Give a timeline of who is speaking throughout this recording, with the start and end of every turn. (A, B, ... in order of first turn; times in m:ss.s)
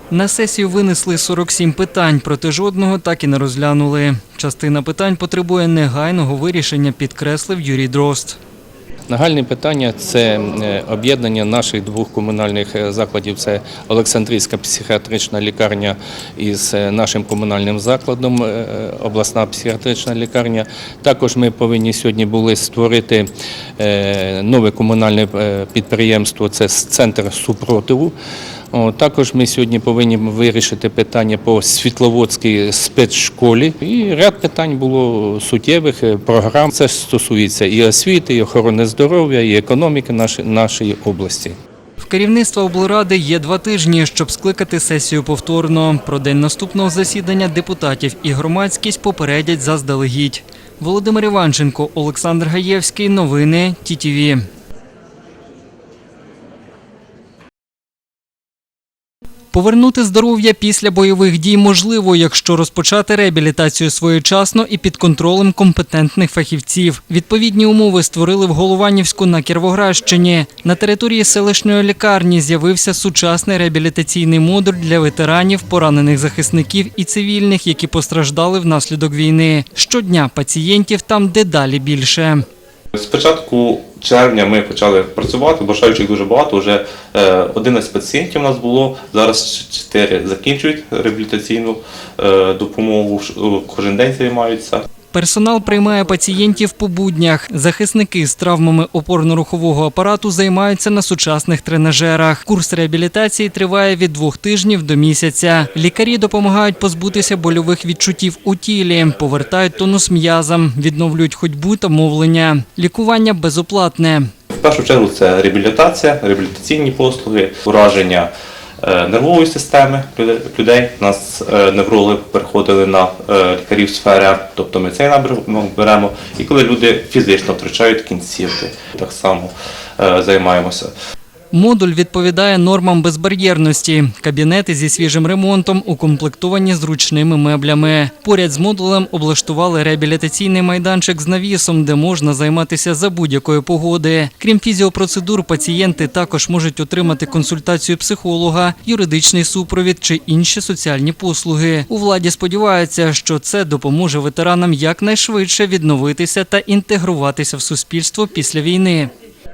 0:00.1-0:08.4 A
0:09.1-0:23.3 B
0:23.8-0:28.1 B
0:28.7-0:41.6 B
0:42.0-0:54.4 A
0:59.5-1:22.4 A
1:22.9-1:34.8 C
1:35.1-1:54.3 A
1:54.5-1:58.3 C
1:58.8-2:10.9 C
2:11.5-2:39.1 A